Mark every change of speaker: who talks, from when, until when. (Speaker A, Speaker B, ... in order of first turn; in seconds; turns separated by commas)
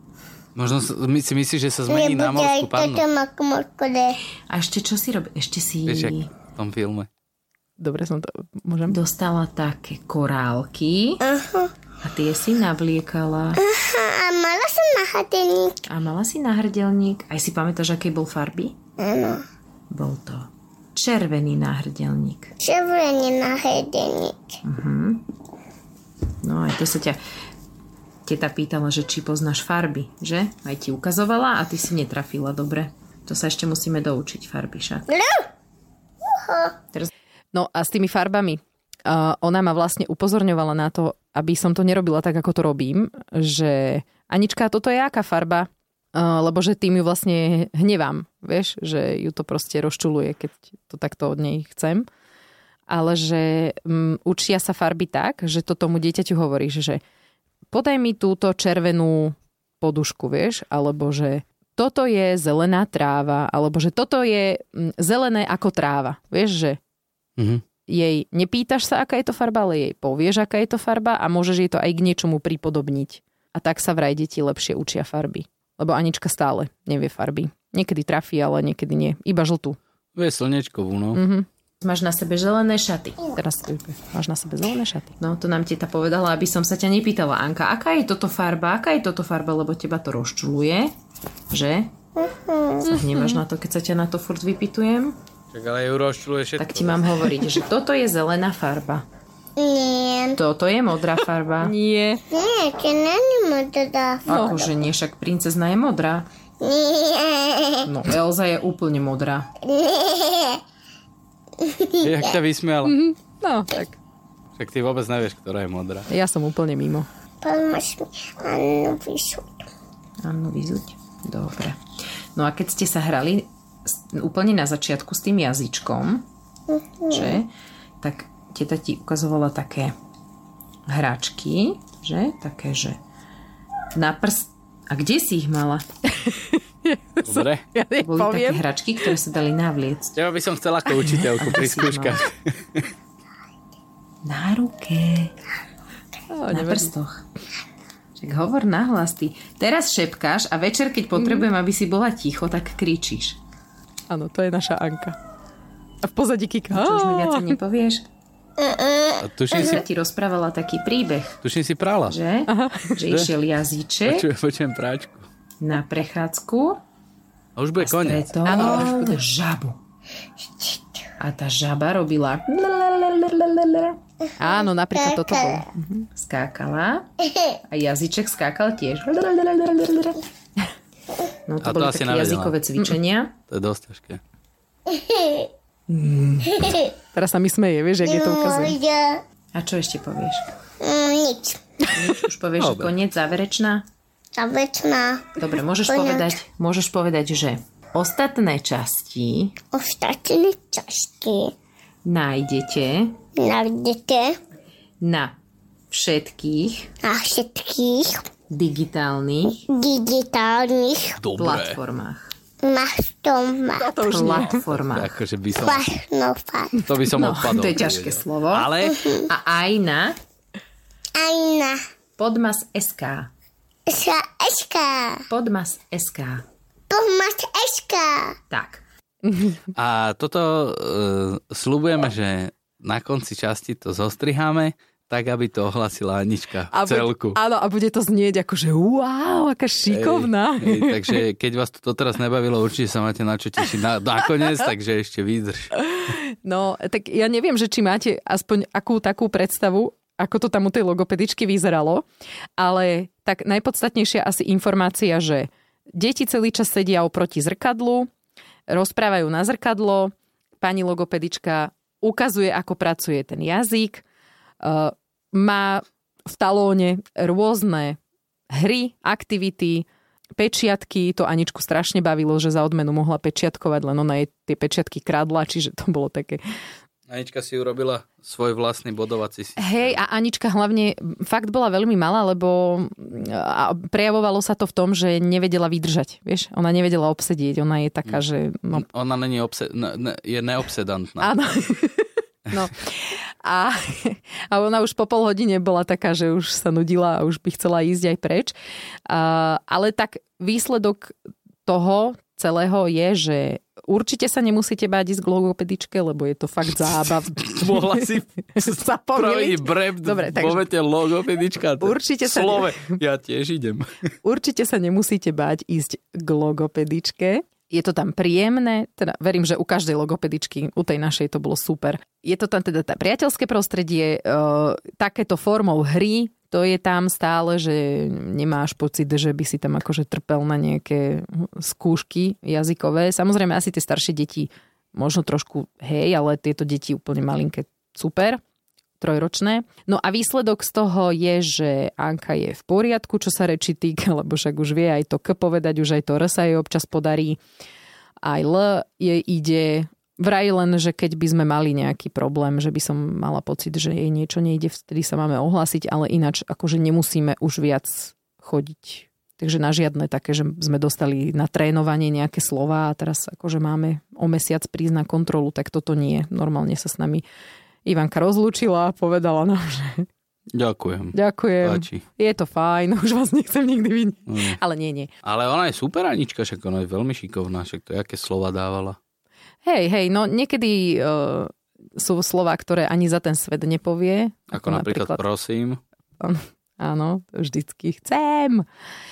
Speaker A: 0.5-3.0, Speaker B: 1.9-4.2, Speaker C: 4.5-6.3, Speaker A: 5.9-7.1, Speaker D: 7.8-9.0, Speaker C: 8.9-11.2, Speaker B: 11.2-11.7, Speaker C: 12.0-13.6, Speaker B: 13.6-15.8, Speaker C: 15.9-18.8, Speaker B: 19.0-19.4, Speaker C: 19.9-22.5, Speaker B: 22.6-24.6, Speaker C: 24.6-25.2, Speaker C: 26.4-27.2, Speaker C: 28.2-35.0, Speaker B: 35.1-35.5, Speaker B: 36.3-36.8, Speaker D: 37.5-52.1, Speaker D: 52.9-57.0, Speaker D: 57.7-66.8, Speaker A: 67.4-67.6, Speaker D: 67.9-79.8, Speaker A: 80.1-81.2, Speaker D: 81.1-81.5, Speaker C: 81.8-83.3, Speaker D: 83.3-85.1, Speaker C: 85.2-90.9, Speaker C: 91.5-91.9, Speaker B: 92.2-92.9, Speaker C: 92.8-95.2, Speaker D: 93.1-93.4, Speaker A: 95.5-97.3, Speaker C: 96.6-99.0, Speaker B: 99.6-100.4, Speaker C: 100.3-101.7, Speaker D: 101.6-102.2, Speaker B: 102.3-104.8, Speaker C: 104.3-106.3, Speaker D: 104.3-104.6, Speaker B: 106.6-107.9, Speaker C: 107.8-109.5, Speaker B: 109.6-110.6, Speaker B: 111.6-112.3, Speaker A: 112.0-113.0, Speaker D: 112.8-114.0, Speaker A: 114.6-116.1, Speaker D: 116.1-117.1, Speaker B: 117.4-119.7, Speaker C: 120.2-121.8, Speaker C: 122.3-126.3, Speaker B: 126.7-127.4, Speaker C: 127.1-129.9, Speaker C: 130.9-133.0, Speaker C: 133.9-135.8, Speaker D: 136.2-138.6, Speaker A: 137.2-137.7, Speaker C: 138.0-140.2, Speaker A: 140.1-142.9, Speaker C: 141.2-142.2, Speaker C: 144.2-145.3, Speaker D: 146.3-146.9, Speaker C: 146.5-147.2, Speaker C: 148.2-153.4, Speaker D: 151.2-151.5, Speaker D: 154.1-155.2, Speaker D: 156.0-157.6, Speaker C: 156.7-158.0, Speaker B: 158.6-159.2, Speaker A: 159.2-159.9, Speaker C: 159.5-161.4, Speaker A: 161.4-162.2, Speaker C: 162.1-164.3, Speaker D: 162.5-163.0, Speaker A: 164.1-165.3, Speaker C: 165.6-166.8, Speaker A: 167.6-168.9, Speaker C: 167.8-169.8, Speaker D: 168.5-169.1, Speaker C: 171.2-174.0, Speaker D: 174.4-176.1, Speaker B: 174.5-175.6, Speaker C: 176.2-177.1, Speaker B: 177.3-177.6, Speaker C: 177.7-180.2, Speaker C: 181.5-183.3, Speaker A: 181.6-182.6, Speaker A: 183.5-184.2, Speaker B: 184.9-185.5, Speaker C: 185.9-186.8, Speaker B: 186.5-186.9, Speaker D: 187.1-188.8, Speaker B: 188.0-189.2, Speaker C: 189.5-190.5, Speaker B: 190.8-191.6, Speaker C: 191.9-193.9, Speaker A: 192.6-192.9, Speaker B: 194.3-196.3, Speaker C: 195.4-199.6, Speaker B: 199.7-201.5, Speaker C: 202.0-203.2, Speaker B: 203.4-204.4, Speaker C: 205.0-205.3, Speaker C: 205.9-206.9, Speaker B: 207.0-208.2, Speaker C: 208.5-209.7, Speaker B: 209.7-211.2, Speaker A: 211.2-211.8, Speaker C: 211.4-212.3, Speaker B: 212.6-214.4, Speaker D: 213.8-214.6, Speaker C: 214.0-215.2, Speaker A: 214.5-215.9, Speaker B: 215.5-216.9, Speaker A: 216.9-219.1, Speaker C: 217.1-220.2, Speaker B: 218.8-219.3, Speaker B: 221.2-221.8, Speaker C: 222.2-223.3, Speaker B: 223.9-225.2, Speaker C: 225.3-226.4, Speaker B: 226.9-228.4, Speaker C: 228.5-228.8, Speaker D: 229.2-229.6, Speaker A: 229.7-237.4, Speaker D: 236.7-241.2, Speaker A: 239.9-245.7, Speaker D: 245.8-252.0, Speaker D: 252.6-258.1, Speaker D: 258.7-264.0, Speaker D: 264.6-268.0, Speaker D: 268.5-269.9, Speaker D: 270.4-276.4, Speaker A: 277.1-280.0, Speaker D: 279.6-288.9, Speaker A: 288.8-291.3, Speaker D: 291.2-298.5, Speaker D: 299.1-301.1, Speaker D: 301.6-310.7, Speaker A: 307.1-313.9, Speaker D: 311.8-313.0, Speaker D: 314.2-338.4, Speaker D: 339.0-347.4, Speaker D: 348.2-367.2, Speaker D: 367.9-370.1, Speaker A: 370.5-372.0, Speaker D: 371.1-375.1, Speaker A: 374.3-374.6, Speaker A: 375.2-379.0, Speaker D: 379.6-385.2, Speaker A: 384.5-385.8, Speaker D: 386.2-388.6